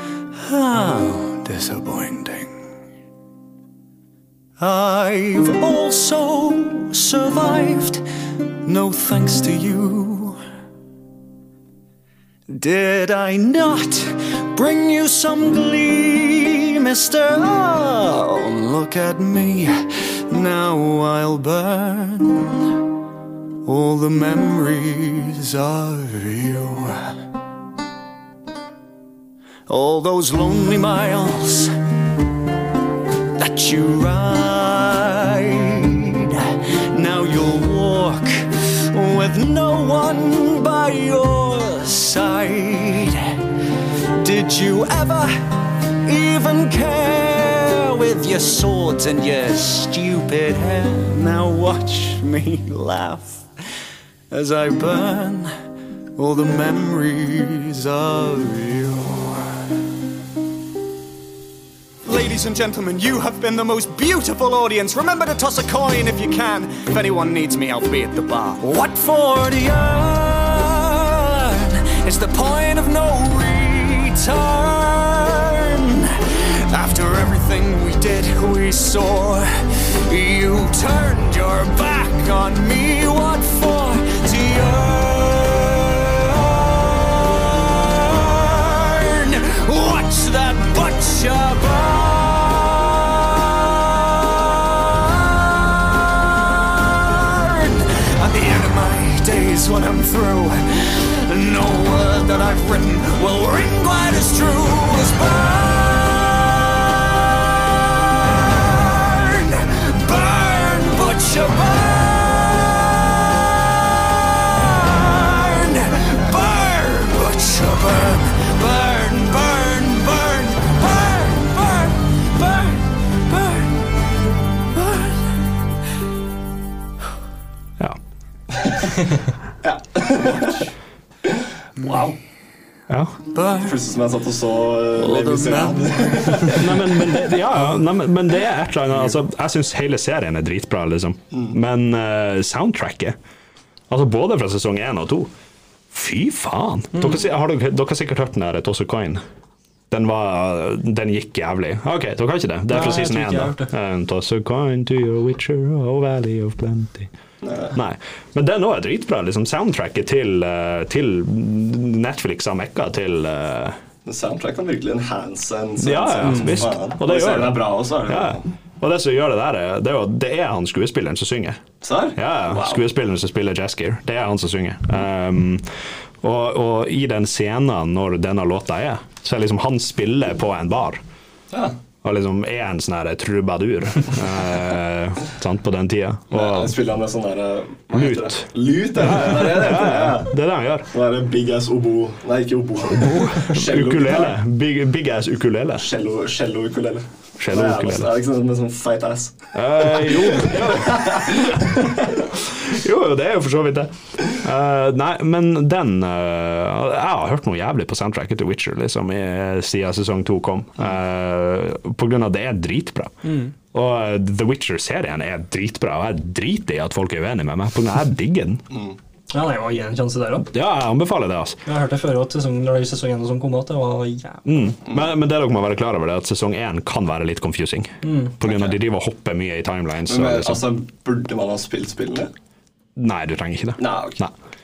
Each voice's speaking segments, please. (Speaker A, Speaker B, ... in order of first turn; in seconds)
Speaker A: 0.4-2.5, 4.6-8.0, 8.7-10.4, 12.5-22.6, 23.6-27.1, 29.7-31.7, 33.4-43.4, 44.2-45.5, 46.1-53.5, 54.3-55.5, 56.2-59.5, 62.1-79.5, 80.1-123.7, 124.8-125.3, 131.8-132.1, 133.3-133.8, 135.0-136.6
Speaker B: 128.6-128.8, 129.6-130.6, 131.3-132.1, 133.6-137.0, 157.4-157.8, 164.1-168.4, 171.8-172.8, 186.3-190.4, 190.9-194.4, 195.8-202.3, 218.7-219.0, 228.4-228.8, 230.1-232.3, 233.8-234.2
Speaker C: 132.9-133.2, 136.5-143.2, 143.9-145.3, 145.9-149.2, 149.9-157.1, 157.7-163.8, 165.8-181.0, 182.0-186.7, 187.9-190.9, 193.1-195.9, 197.4-198.1, 199.5-213.1, 213.7-218.6, 220.5-221.6, 224.5-230.7, 233.0-234.3
Speaker D: 152.7-153.7, 166.3-166.6, 213.2-213.5, 219.3-220.5, 221.7-224.7, 228.0-228.3